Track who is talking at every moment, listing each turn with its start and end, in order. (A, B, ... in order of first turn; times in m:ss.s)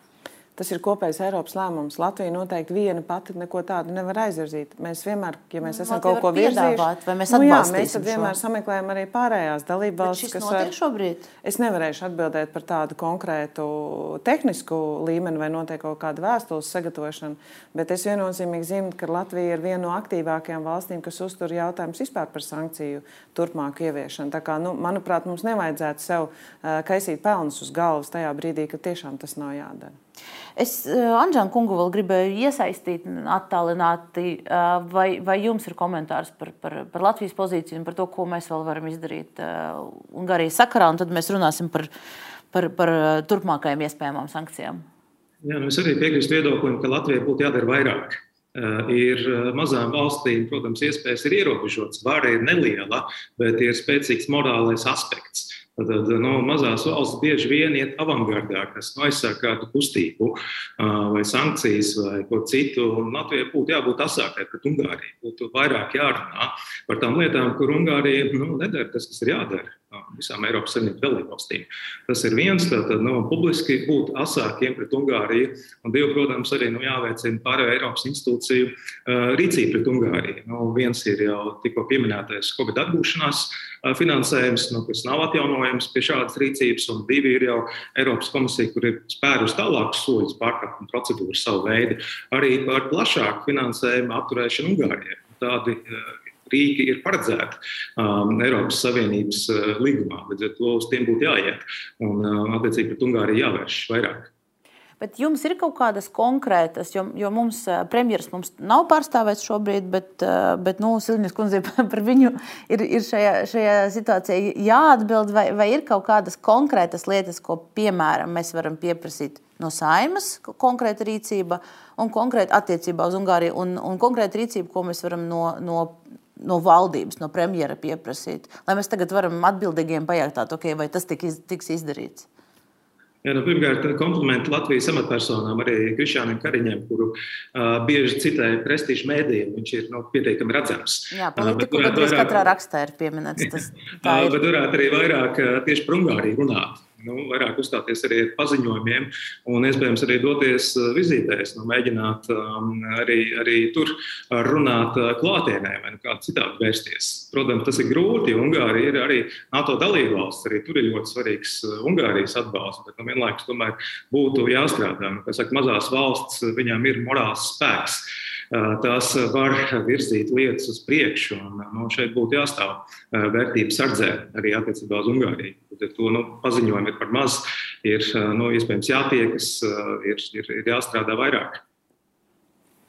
0:00.6-0:10.7 A
0:05.6-0:08.4 B
0:10.0-0:11.3 B
0:11.4-0:29.9 A
0:30.6-0:41.9 B
0:42.5-0:44.8 B
0:45.4-1:44.3 C
1:45.0-2:12.3 B
2:13.2-2:22.5 C
2:21.1-2:24.4 B
2:24.0-3:01.6 C